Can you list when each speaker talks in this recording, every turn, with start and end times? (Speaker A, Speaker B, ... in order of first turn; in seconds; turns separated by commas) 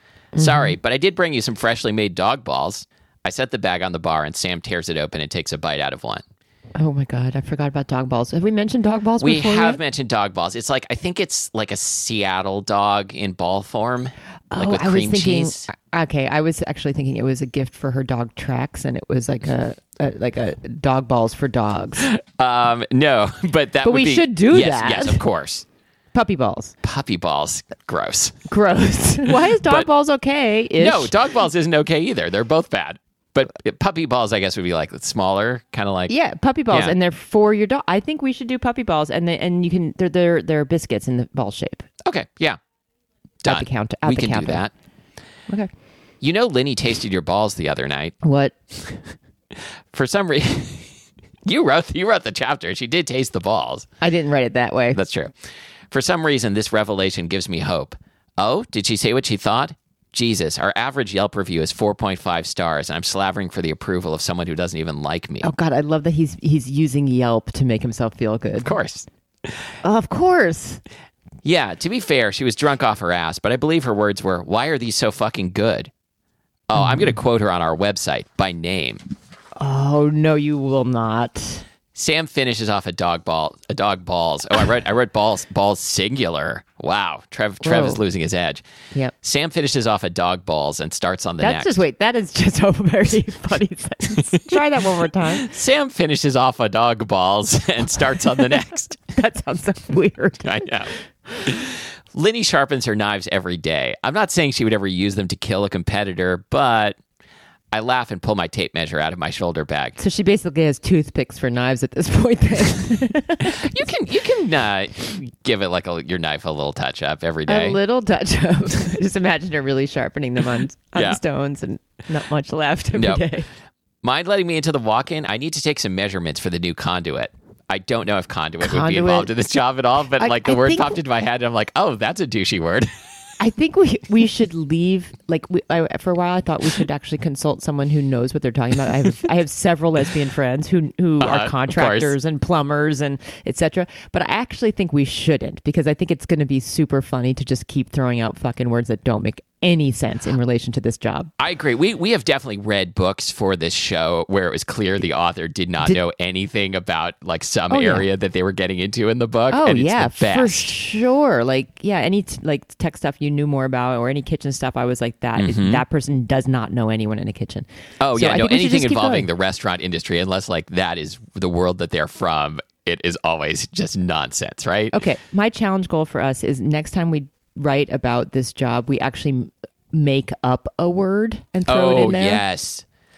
Speaker A: 0.3-0.8, Speaker B: 0.4-6.2, Speaker A: 6.8-9.8, Speaker B: 9.2-15.7, Speaker A: 14.5-22.1, Speaker B: 22.0-25.7, Speaker A: 23.8-25.2, Speaker A: 26.1-26.8, Speaker B: 26.8-28.5, Speaker A: 28.5-31.1, Speaker B: 29.3-29.9, Speaker B: 30.8-36.1, Speaker A: 36.1-41.9, Speaker B: 36.7-37.0, Speaker B: 42.0-42.6, Speaker B: 43.4-44.7, Speaker A: 43.5-44.6, Speaker B: 46.2-48.2, Speaker A: 48.2-48.6, Speaker B: 49.5-50.9, Speaker B: 51.5-53.9, Speaker A: 54.0-55.0, Speaker B: 54.9-55.4, Speaker B: 55.9-65.5, Speaker A: 65.4-68.7, Speaker B: 68.6-69.5, Speaker A: 69.8-70.8, Speaker B: 71.4-75.9, Speaker B: 76.7-79.0, Speaker A: 76.8-77.1, Speaker A: 79.6-81.7, Speaker B: 81.9-88.6, Speaker A: 87.6-88.0, Speaker B: 89.2-91.8, Speaker A: 91.4-95.5, Speaker B: 95.3-99.0, Speaker A: 99.1-100.7, Speaker B: 100.4-100.9, Speaker B: 101.4-107.0, Speaker B: 107.7-110.0, Speaker A: 110.0-113.9, Speaker B: 113.4-117.8, Speaker A: 117.5-123.5, Speaker B: 123.0-123.2, Speaker B: 124.0-132.9, Speaker A: 128.6-129.3, Speaker A: 130.2-131.0, Speaker A: 133.4-151.3, Speaker B: 141.2-142.2, Speaker B: 151.4-160.7, Speaker A: 157.7-158.1, Speaker A: 159.5-169.3, Speaker B: 165.4-165.8, Speaker B: 168.0-174.9, Speaker A: 174.9-182.4, Speaker B: 181.7-182.8